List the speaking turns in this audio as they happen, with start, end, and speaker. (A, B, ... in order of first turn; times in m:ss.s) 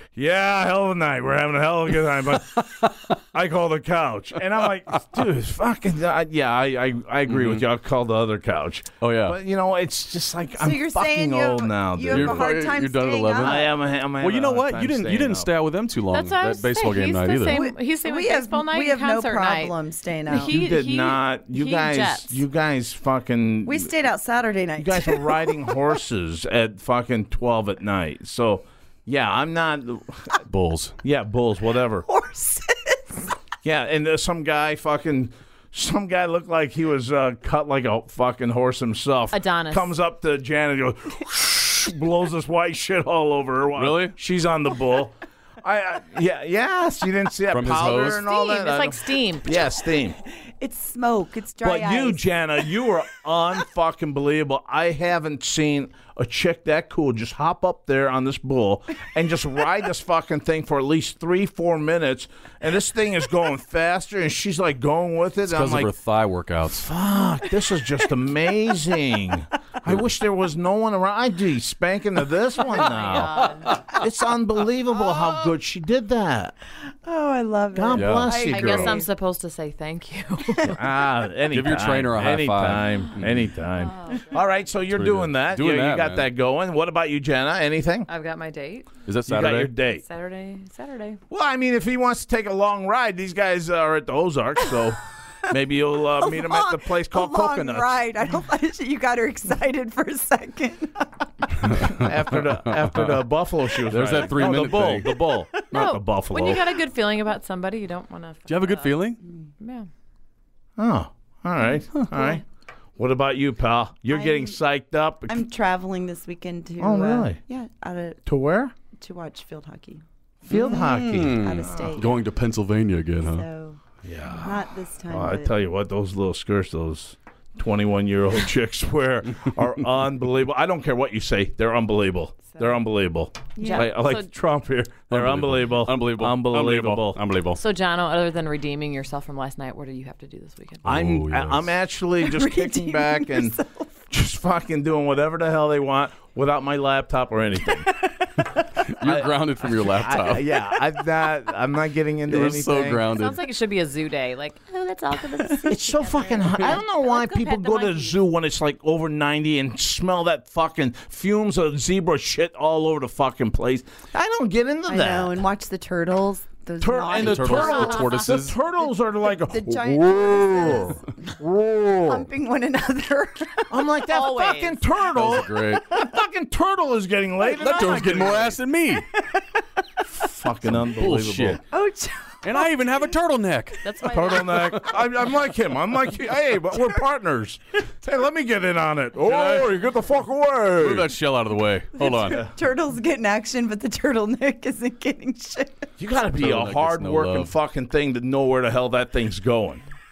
0:00.2-0:12.5 A
0:02.6-0:03.1 B
0:04.9-0:05.2 B
0:07.3-0:07.6 B
0:09.0-0:09.4 B
0:10.6-0:13.7 C
0:12.1-0:17.6 B
0:13.4-0:15.5 A
0:16.1-0:19.8 D
0:17.5-0:20.6 C
0:20.3-0:22.4 D
0:20.5-0:23.9 A
0:23.6-0:25.8 C
0:24.8-0:30.4 A
0:30.5-0:30.9 B
0:31.0-0:32.0 A
0:32.0-0:33.3 C
0:33.6-0:50.2 A
0:39.3-0:39.9 D
0:43.8-0:44.1 B
0:47.5-0:48.2 B
0:48.0-0:49.5 D
0:50.2-0:52.9 C
0:51.6-1:05.9 A
1:05.5-1:06.9 B
1:06.6-1:16.6 A
1:07.3-1:07.7 C
1:12.8-1:13.7 D
1:16.9-1:19.1 C
1:17.8-1:19.0 A
1:17.9-1:18.8 B
1:18.5-1:20.8 D
1:20.6-1:28.1 A
1:21.5-1:23.5 B
1:23.8-1:24.4 D
1:24.9-1:26.3 B
1:28.1-1:28.9 D
1:29.1-1:29.7 B
1:29.3-1:30.0 A
1:30.0-1:31.2 D
1:31.3-1:38.0 A
1:36.1-1:41.8 C
1:41.8-1:42.1 B
1:41.9-1:46.8 A
1:42.7-1:43.1 B
1:43.9-1:45.2 B
1:45.7-1:49.0 D
1:48.5-1:49.2 B
1:49.6-1:49.9 D
1:50.8-1:52.4 A
1:53.0-1:55.4 A
1:54.1-1:54.6 C
1:55.3-1:58.2 C
1:56.8-1:57.4 A
1:58.3-1:58.8 A
1:58.9-2:02.2 C
2:00.4-2:02.0 A
2:00.6-2:03.5 B
2:03.2-2:05.5 C
2:04.0-2:17.2 A
2:13.6-2:13.9 C
2:13.6-2:14.3 D
2:15.1-2:17.6 B
2:17.6-2:20.8 D
2:20.8-2:21.7 B
2:20.8-2:23.6 A
2:22.2-2:24.1 C
2:24.1-2:27.9 A
2:28.0-2:28.3 C
2:28.6-2:30.6 B
2:29.0-2:33.1 A
2:32.3-2:33.4 B
2:33.1-2:38.2 D
2:35.7-2:45.4 A
2:44.9-2:51.2 C
2:46.8-2:52.2 A
2:47.1-2:48.6 B
2:47.2-2:48.2 D
2:52.0-2:53.8 C
2:53.7-2:58.6 A
2:54.1-2:54.9 D
2:55.1-2:55.9 B
2:57.6-2:59.1 B
2:59.2-2:59.6 C
3:00.1-3:01.6 A
3:00.7-3:01.6 B
3:01.7-3:03.1 C
3:02.4-3:03.9 B
3:03.8-3:04.8 D
3:04.1-3:11.2 A
3:09.2-3:09.8 B
3:10.8-3:12.4 B
3:12.0-3:15.9 C
3:12.2-3:12.5 A
3:16.0-3:19.8 A
3:16.4-3:17.5 B